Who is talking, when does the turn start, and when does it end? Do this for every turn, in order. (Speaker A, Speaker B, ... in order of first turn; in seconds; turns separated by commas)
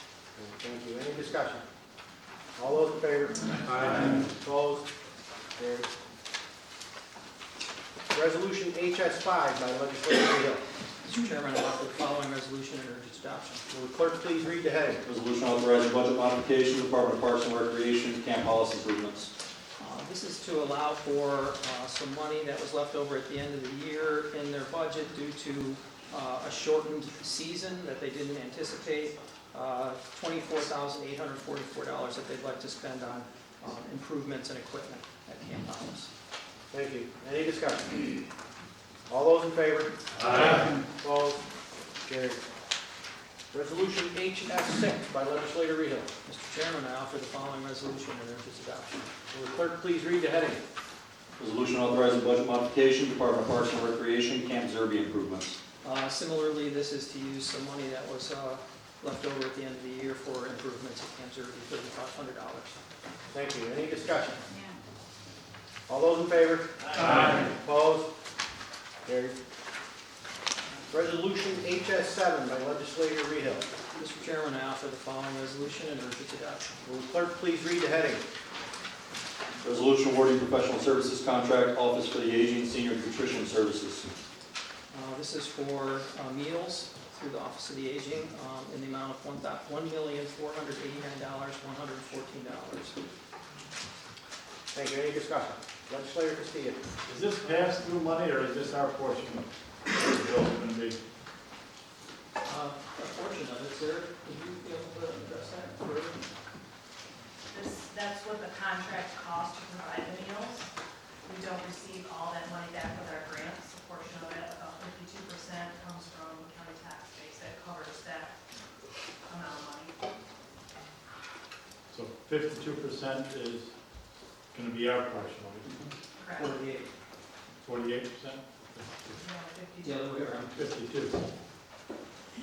Speaker A: 0.4-1.6, Speaker A: 2.6-4.8, Speaker A: 5.6-5.9, Speaker A: 8.1-10.6, Speaker B: 11.0-13.6, Speaker A: 13.7-15.0, Speaker C: 15.1-19.3, Speaker B: 19.8-36.1, Speaker A: 36.7-38.1, Speaker A: 39.1-41.5, Speaker D: 40.2-40.6, Speaker A: 42.0-42.4, Speaker A: 43.5-46.1, Speaker B: 46.3-49.1, Speaker A: 49.3-50.6, Speaker C: 51.4-55.6, Speaker B: 55.8-62.8, Speaker A: 63.3-64.4, Speaker A: 65.9-68.1, Speaker D: 67.0-67.4, Speaker A: 69.1-69.4, Speaker A: 70.9-73.7, Speaker B: 74.0-76.7, Speaker A: 76.8-78.2, Speaker C: 79.6-84.1, Speaker B: 84.9-93.0, Speaker A: 94.7-96.8, Speaker D: 97.1-101.0, Speaker B: 102.5-106.2, Speaker E: 107.5-110.7, Speaker E: 111.3-118.3, Speaker E: 119.3-120.0, Speaker D: 121.9-123.7, Speaker D: 124.5-125.7, Speaker E: 126.2-126.5, Speaker B: 126.4-126.9, Speaker D: 127.6-129.2, Speaker E: 129.2-130.3, Speaker B: 129.8-130.6, Speaker D: 130.5-131.2